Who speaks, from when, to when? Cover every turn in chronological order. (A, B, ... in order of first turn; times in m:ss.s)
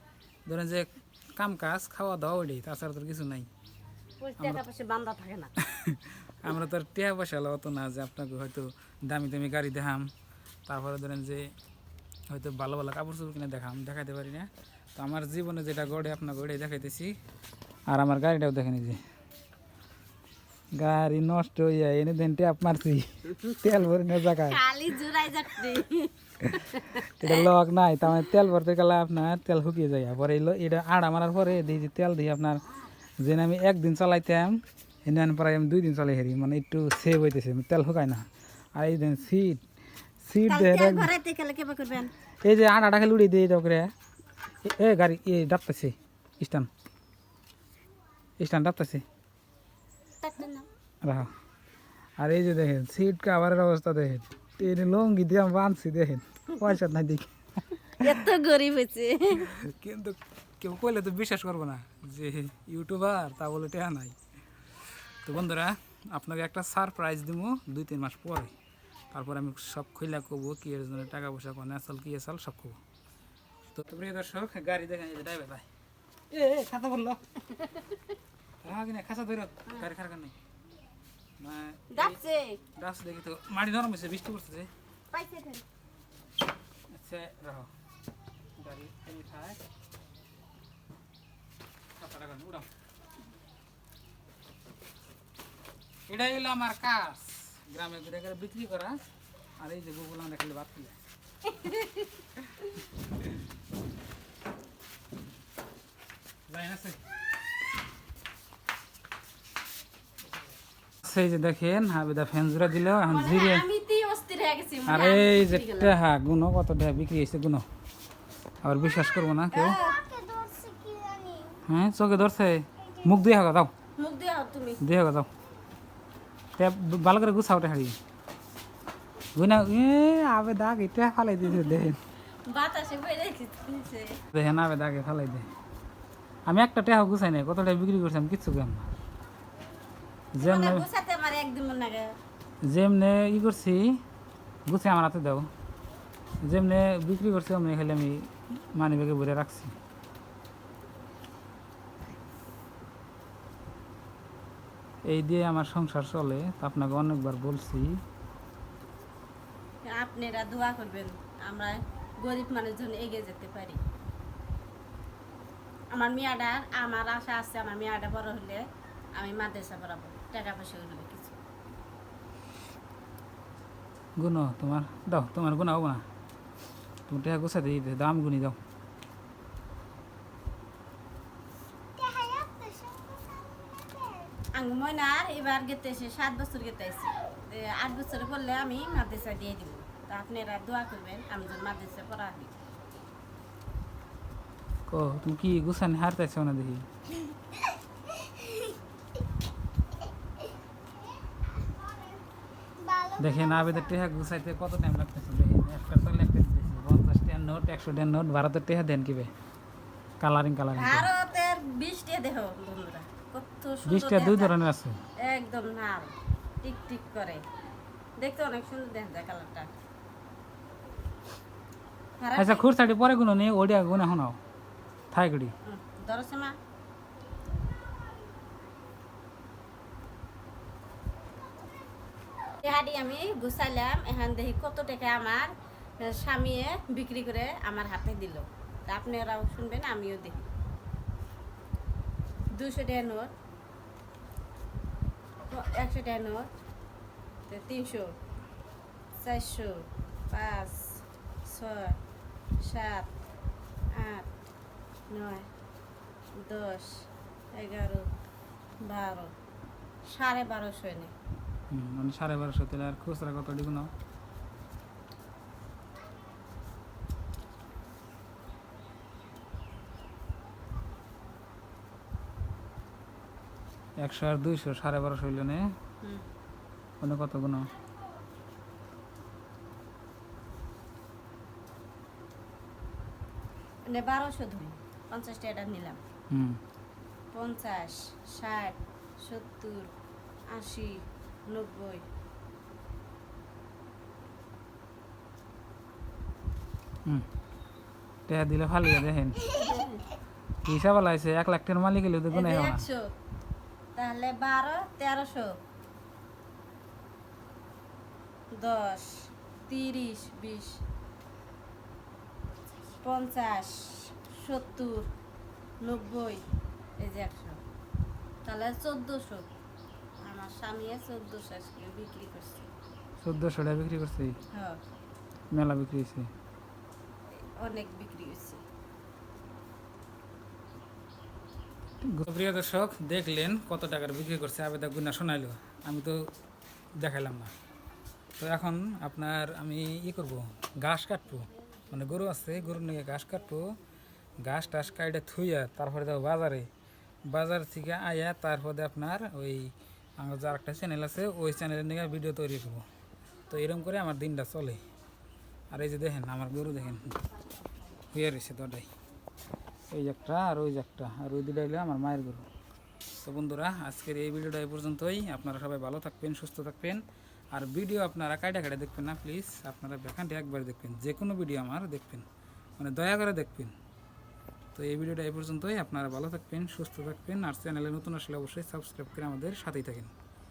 0:00.5-0:03.5 A
0:04.2-0:05.5 B
0:04.4-0:04.6 A
0:05.6-0:10.1 A
0:10.7-0:11.5 A
0:12.3-0:17.2 A
0:17.9-0:19.0 A
0:20.8-0:24.6 A
0:24.2-0:27.5 B
0:26.5-0:32.6 A
0:33.2-0:38.2 A
0:38.8-0:39.6 A
0:40.2-0:41.1 A
0:40.5-0:42.1 B
0:42.4-0:43.9 A
0:44.6-0:46.7 A
0:48.4-0:49.0 A
0:50.2-0:50.7 B
0:51.0-0:51.3 A
0:52.2-0:57.3 A
0:58.0-0:59.5 B
0:59.4-1:04.2 A
1:05.2-1:08.5 A
1:09.1-1:12.8 A
1:13.7-1:15.7 A
1:16.3-1:17.2 A
1:17.5-1:18.0 B
1:18.6-1:20.3 A
1:21.4-1:22.2 A
1:21.9-1:22.6 B
1:22.8-1:24.7 A
1:25.1-1:25.4 B
1:25.2-1:25.6 C
1:26.9-1:27.7 A
1:28.6-1:29.6 A
1:32.0-1:32.7 A
1:36.1-1:39.0 A
1:39.6-1:41.0 A
1:41.5-1:42.1 B
1:46.5-1:47.0 A
1:51.0-1:53.6 A
1:53.1-1:56.0 B
1:54.9-1:57.7 A
1:58.6-1:59.8 A
1:59.5-2:00.0 B
1:59.6-2:01.6 C
2:01.7-2:03.7 A
2:04.0-2:04.8 B
2:04.8-2:05.3 A
2:06.6-2:08.0 A
2:09.4-2:12.0 A
2:12.5-2:14.2 B
2:14.3-2:15.5 A
2:16.5-2:18.9 A
2:20.4-2:20.9 A
2:20.4-2:22.2 B
2:22.6-2:24.0 A
2:24.7-2:25.5 A
2:26.4-2:29.8 A
2:35.1-2:38.0 A
2:39.8-2:43.8 B
2:45.9-2:48.6 B
2:49.2-2:51.4 B
2:54.2-2:56.0 A
2:57.1-2:58.6 A
3:02.0-3:04.3 C
3:04.5-3:12.5 B
3:14.9-3:16.9 A
3:18.2-3:18.5 C
3:22.8-3:23.8 C
3:23.2-3:29.3 A
3:30.2-3:31.1 A
3:30.7-3:34.6 B
3:33.8-3:35.0 A
3:35.2-3:37.4 B
3:38.2-3:39.7 B
3:42.2-3:42.7 B
3:42.4-3:44.4 A
3:45.1-3:45.5 A
3:45.6-3:46.6 B
3:52.6-4:00.5 B
4:02.6-4:03.3 B
4:05.5-4:06.5 B
4:07.5-4:08.1 B
4:09.2-4:12.0 B
4:12.6-4:13.1 B
4:14.0-4:14.3 B
4:15.1-4:15.5 B
4:16.4-4:18.1 B
4:18.9-4:19.3 B
4:20.1-4:21.1 B
4:21.7-4:23.9 A
4:34.0-4:35.7 A
4:37.0-4:37.7 A
4:43.9-4:46.0 B
4:46.3-4:46.6 A
4:47.3-4:49.9 B
4:50.5-4:52.0 B
4:58.3-4:59.5 A
4:59.5-5:00.1 B
5:00.6-5:02.8 A
5:02.3-5:03.1 B
5:04.0-5:05.5 B
5:08.6-5:09.1 B
5:09.7-5:10.8 B
5:13.0-5:15.1 B
5:15.8-5:16.4 B
5:17.0-5:17.6 B
5:18.4-5:19.5 B
5:20.2-5:22.7 B
5:23.2-5:24.4 A
5:24.5-5:24.8 B
5:25.5-5:26.3 A
5:27.4-5:28.6 B
5:32.0-5:36.2 A
5:37.0-5:37.6 A
5:38.4-5:43.7 A
5:44.4-5:46.7 A
5:47.3-5:52.8 A
5:53.5-5:54.8 A
5:55.7-5:57.2 A
5:58.1-5:58.9 A
5:59.9-6:02.5 A
6:03.2-6:07.0 A
6:07.5-6:12.3 A
6:12.8-6:13.7 A
6:14.8-6:20.1 A